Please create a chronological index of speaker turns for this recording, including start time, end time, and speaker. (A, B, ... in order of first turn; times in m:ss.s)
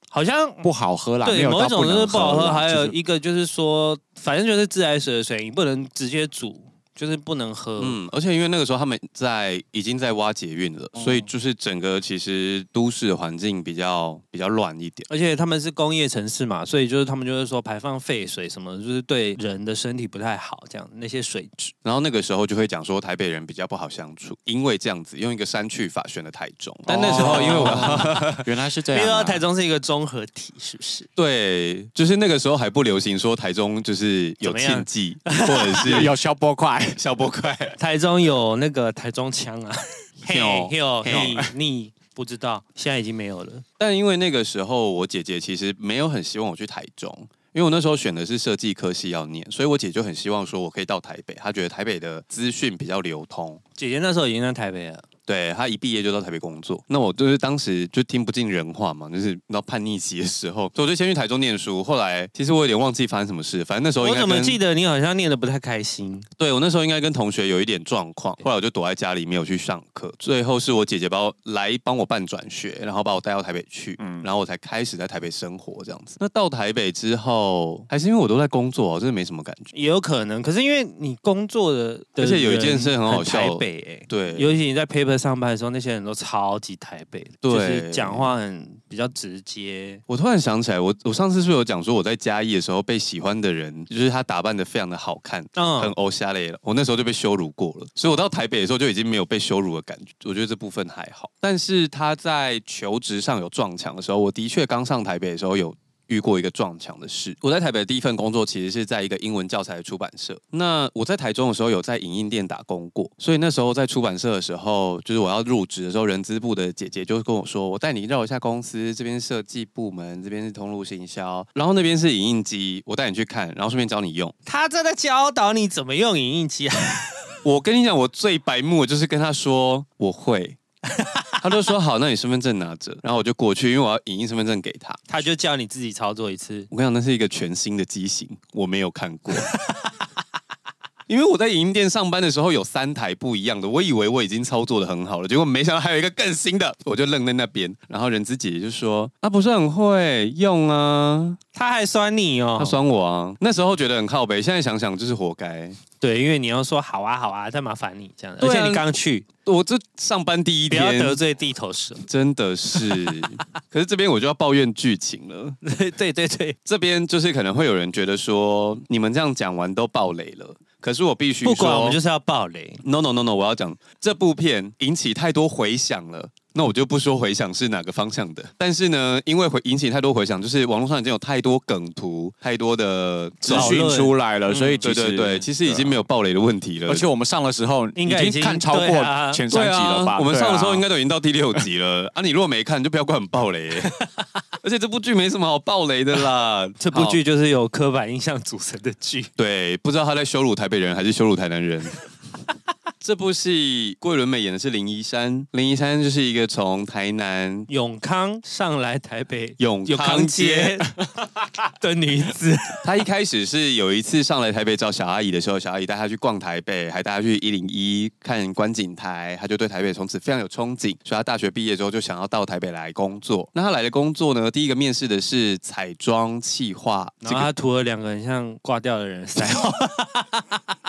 0:00.1-0:00.7 A
0:00.6-0:03.0 B
0:01.2-0:08.0 A
0:07.8-0:15.1 C
0:11.0-0:11.2 B
0:15.1-0:21.7 A
0:21.8-0:28.4 C
0:26.9-0:29.4 B
0:27.0-0:28.4 A
0:28.9-0:31.1 A
0:31.2-0:36.1 C
0:34.4-0:36.1 A
0:35.8-0:37.0 B
0:37.0-0:37.8 C
0:37.8-0:43.6 A
0:40.3-0:41.4 C
0:41.1-0:41.5 B
0:43.8-0:53.6 C
0:53.8-0:55.0 A
0:55.3-1:04.6 C
1:04.0-1:06.3 A
1:06.4-1:19.7 C
1:14.0-1:14.3 B
1:19.7-1:30.0 A
1:22.2-1:24.6 C
1:27.4-1:28.3 C
1:30.1-2:04.3 C
1:35.6-1:35.9 A
2:04.5-2:07.4 A
2:07.4-2:10.6 C
2:10.9-2:11.4 A
2:11.4-2:15.2 C
2:15.1-2:16.7 A
2:16.7-2:19.5 C
2:19.3-2:19.9 A
2:21.1-2:31.4 C
2:31.5-2:32.8 A
2:32.6-2:35.8 C
2:36.0-2:39.3 A
2:38.4-2:38.9 C
2:39.4-2:41.2 C
2:40.7-2:42.0 A
2:42.0-2:45.6 C
2:42.7-2:43.3 A
2:45.6-2:46.6 A
2:46.7-2:52.0 C
2:51.4-2:52.8 A
2:52.8-3:03.8 C
3:03.4-3:06.0 B
3:03.5-3:04.8 A
3:04.8-3:07.1 C
3:06.9-3:10.8 B
3:08.0-3:09.4 A
3:09.5-3:13.9 C
3:14.6-3:17.2 C
3:16.8-3:19.3 A
3:19.4-3:22.1 C
3:23.0-3:27.7 C
3:27.7-3:30.9 A
3:29.6-3:30.9 C
3:31.8-3:32.9 A
3:32.8-3:47.5 C
3:47.2-3:50.6 A